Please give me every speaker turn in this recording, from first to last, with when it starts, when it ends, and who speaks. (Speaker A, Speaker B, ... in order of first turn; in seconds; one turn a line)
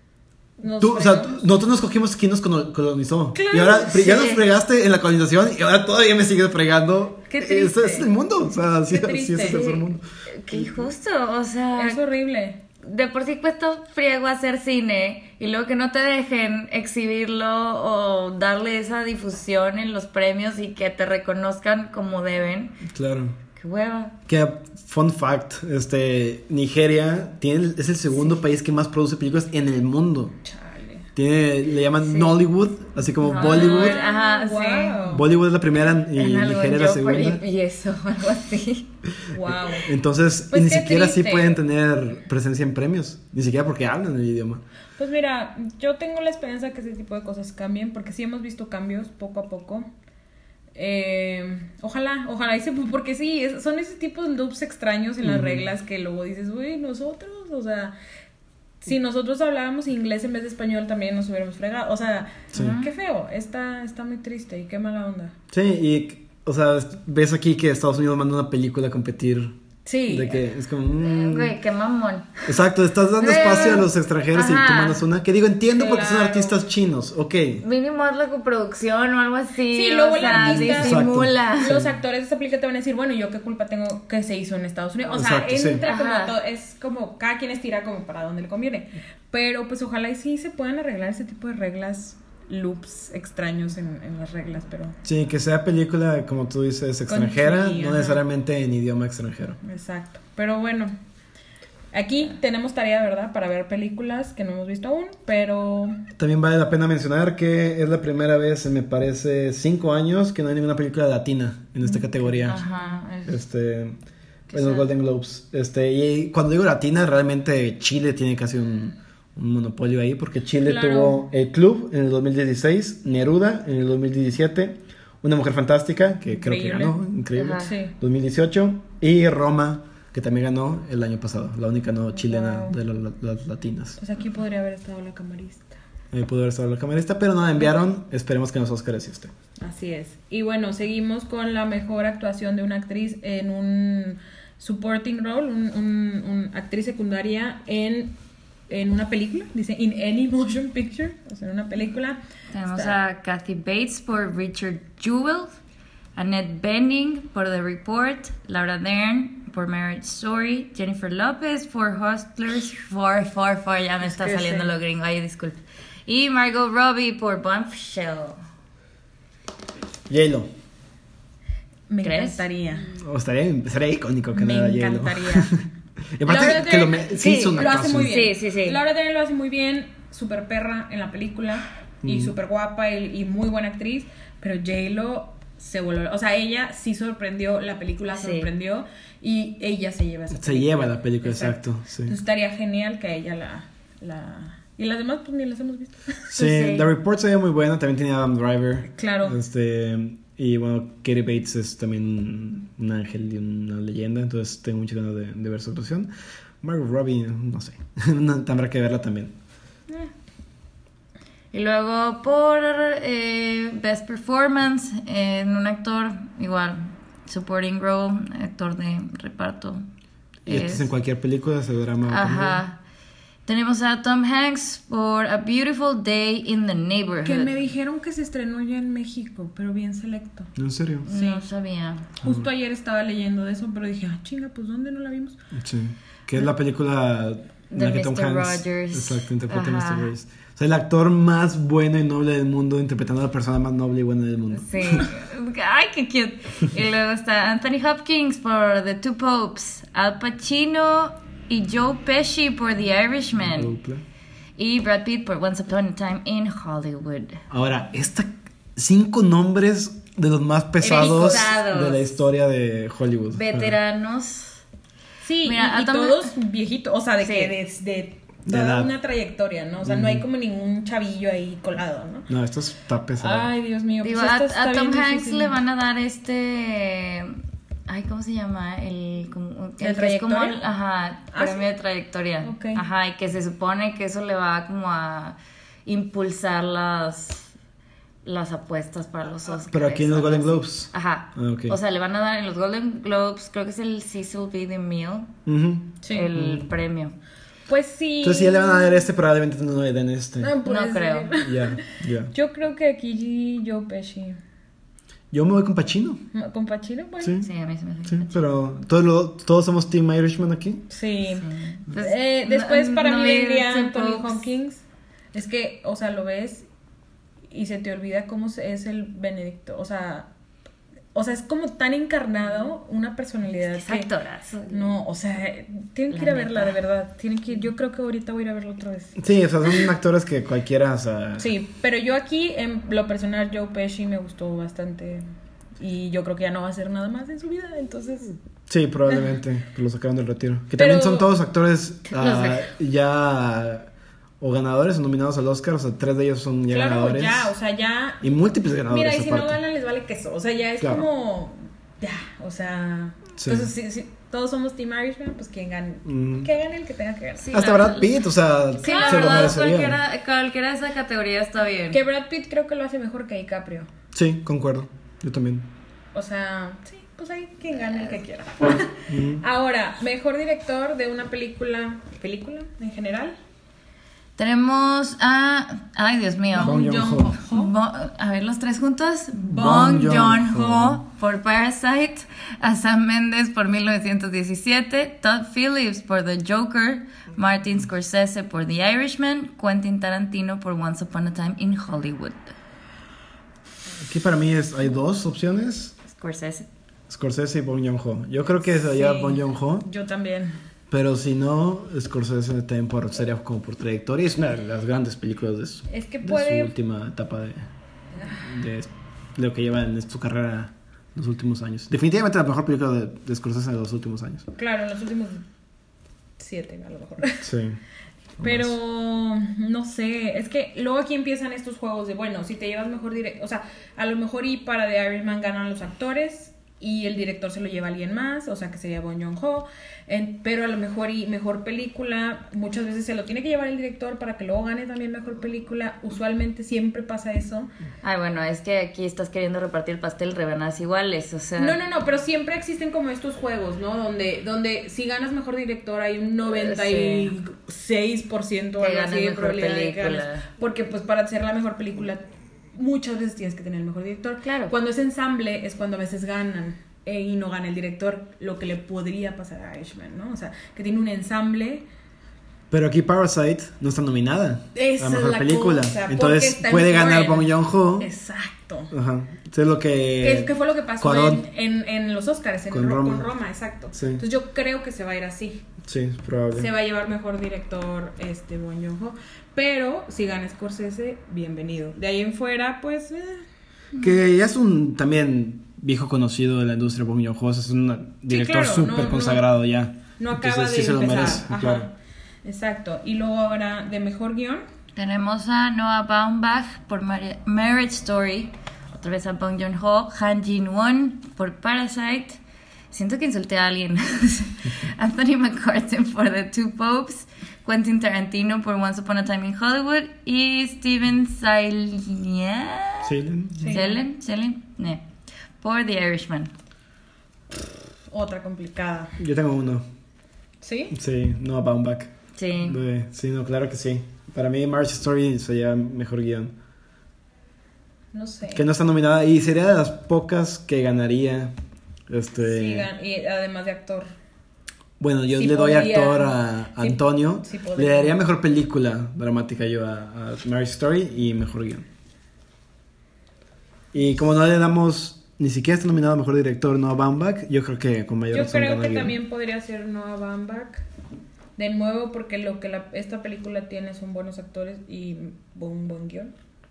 Speaker A: 0.6-1.4
Speaker B: 0.8-10.7
Speaker A: 3.3-4.3
Speaker C: 4.0-4.4
Speaker A: 7.3-8.1
Speaker A: 8.9-9.6
Speaker C: 9.4-12.0
Speaker A: 11.8-12.6
Speaker C: 12.8-22.8
Speaker B: 22.9-23.4
Speaker C: 23.6-24.1
Speaker B: 24.3-30.4
Speaker A: 30.4-31.1
Speaker B: 31.1-34.0
Speaker C: 33.3-35.0
Speaker A: 33.3-35.3
Speaker B: 35.1-37.4
Speaker C: 36.1-38.9
Speaker B: 39.2-44.6
Speaker A: 39.3-39.9
Speaker A: 40.5-41.6
Speaker A: 45.0-49.9
Speaker A: 50.8-57.9
Speaker B: 55.2-55.6
Speaker A: 58.8-65.3
Speaker C: 62.5-62.9
Speaker B: 65.5-69.5
Speaker A: 69.9-70.4
Speaker B: 70.1-71.6
Speaker C: 71.0-72.5
Speaker B: 72.5-77.6
Speaker C: 73.2-75.0
Speaker A: 75.7-76.6
Speaker C: 77.6-81.8
Speaker A: 79.7-95.0
Speaker B: 80.2-81.9
Speaker B: 85.1-85.8
Speaker C: 85.9-86.3
Speaker B: 95.0-99.6
Speaker A: 97.1-98.2
Speaker A: 99.6-100.9
Speaker A: 101.9-106.0
Speaker B: 106.2-112.6
Speaker A: 111.8-113.0
Speaker C: 112.5-113.4
Speaker B: 113.3-114.0
Speaker C: 114.5-114.9
Speaker B: 114.5-134.0
Speaker A: 120.7-121.2
Speaker A: 126.3-127.0
Speaker C: 127.3-127.7
Speaker A: 127.6-127.9
Speaker A: 132.2-132.8
Speaker A: 134.0-135.8
Speaker B: 136.1-139.3
Speaker A: 139.6-148.2
Speaker A: 148.7-152.9
Speaker C: 152.5-155.6
Speaker C: 156.2-168.4
Speaker A: 164.0-164.7
Speaker B: 170.1-170.5
Speaker A: 171.9-172.9
Speaker C: 172.0-172.4
Speaker B: 172.9-175.6
Speaker A: 174.3-175.5
Speaker B: 176.2-178.2
Speaker A: 176.3-196.2
Speaker C: 177.2-178.8
Speaker B: 182.0-182.3
Speaker C: 188.2-188.5
Speaker B: 190.3-192.2
Speaker B: 196.3-206.1
Speaker C: 196.4-196.9
Speaker A: 198.9-199.4
Speaker B: 206.6-209.3
Speaker C: 211.5-219.8
Speaker C: 220.5-220.9
Speaker B: 220.5-222.6
Speaker C: 222.1-222.8
Speaker C: 223.5-227.5
Speaker A: 227.2-230.5
Speaker B: 230.6-231.1
Speaker A: 231.1-231.4
Speaker C: 231.1-232.1
Speaker A: 232.2-235.4
Speaker B: 235.5-245.1
Speaker C: 237.7-240.1
Speaker C: 244.6-253.7
Speaker B: 253.4-254.0
Speaker C: 254.6-257.4
Speaker B: 257.5-263.8
Speaker C: 260.8-262.1
Speaker A: 260.8-261.5
Speaker C: 263.3-264.6
Speaker A: 265.2-272.3
Speaker C: 265.4-266.3
Speaker C: 267.2-267.5
Speaker B: 268.5-268.9
Speaker B: 269.8-270.2
Speaker B: 272.3-273.5
Speaker A: 273.2-275.6
Speaker C: 274.0-287.5
Speaker A: 279.8-280.6
Speaker A: 281.3-281.6
Speaker A: 282.4-282.8
Speaker C: 288.2-295.3
Speaker B: 289.7-291.8
Speaker B: 295.5-296.7
Speaker C: 296.1-297.2
Speaker A: 297.7-299.1
Speaker B: 298.2-300.5
Speaker A: 300.4-301.8
Speaker C: 300.6-301.3
Speaker B: 301.4-302.3
Speaker A: 302.3-304.4
Speaker B: 305.3-306.2
Speaker A: 306.3-307.4
Speaker B: 307.2-307.5
Speaker C: 307.4-308.4
Speaker B: 308.1-310.8
Speaker A: 310.9-316.7
Speaker C: 311.3-314.4
Speaker A: 317.5-320.3
Speaker A: 321.1-324.1
Speaker C: 323.7-325.0
Speaker A: 324.7-329.2
Speaker C: 326.1-326.8
Speaker B: 329.2-331.5
Speaker A: 331.4-335.2
Speaker A: 335.8-338.4
Speaker B: 338.7-347.5
Speaker A: 340.8-341.3
Speaker C: 342.1-342.6
Speaker A: 346.7-348.4
Speaker B: 348.2-349.6
Speaker A: 348.9-357.6
Speaker B: 350.8-351.1
Speaker B: 353.4-353.7
Speaker B: 356.1-356.5
Speaker C: 357.4-358.2
Speaker B: 357.5-360.0
Speaker C: 358.8-362.0
Speaker A: 358.8-359.6
Speaker A: 361.9-363.9
Speaker B: 364.1-365.7
Speaker A: 366.1-373.4
Speaker B: 369.1-369.4
Speaker C: 374.4-392.5
Speaker A: 376.5-377.7
Speaker B: 376.6-377.4
Speaker B: 379.5-381.0
Speaker B: 394.0-396.0
Speaker C: 396.1-396.7
Speaker B: 397.1-399.9
Speaker A: 398.8-400.6
Speaker B: 400.9-407.7
Speaker A: 405.9-406.7
Speaker A: 408.2-408.4
Speaker B: 408.3-414.5
Speaker A: 414.6-415.4
Speaker A: 416.4-417.5
Speaker B: 417.4-417.8
Speaker B: 418.4-418.7
Speaker A: 418.4-437.7
Speaker C: 438.0-441.8
Speaker A: 441.6-461.9
Speaker C: 446.5-447.3
Speaker C: 448.8-450.4
Speaker C: 454.4-454.7
Speaker B: 462.7-468.1
Speaker A: 464.8-468.9
Speaker B: 468.9-471.4
Speaker A: 470.2-475.6
Speaker B: 472.7-473.3
Speaker B: 473.9-474.2
Speaker B: 475.8-476.7
Speaker A: 476.5-483.4
Speaker B: 484.0-491.9
Speaker A: 488.3-489.5
Speaker A: 490.2-491.9
Speaker A: 492.4-494.6
Speaker C: 495.0-502.4
Speaker C: 502.9-515.0
Speaker B: 513.0-513.7
Speaker A: 513.6-514.0
Speaker C: 515.6-516.5
Speaker A: 518.1-519.2
Speaker B: 519.2-519.9
Speaker A: 520.6-521.0
Speaker B: 520.9-526.5
Speaker C: 522.4-522.8
Speaker A: 528.1-528.7
Speaker B: 528.5-531.5
Speaker B: 532.1-532.9
Speaker A: 532.4-534.1
Speaker B: 535.0-541.9
Speaker A: 535.3-538.2
Speaker B: 543.9-549.1
Speaker A: 548.3-550.9
Speaker A: 551.6-556.3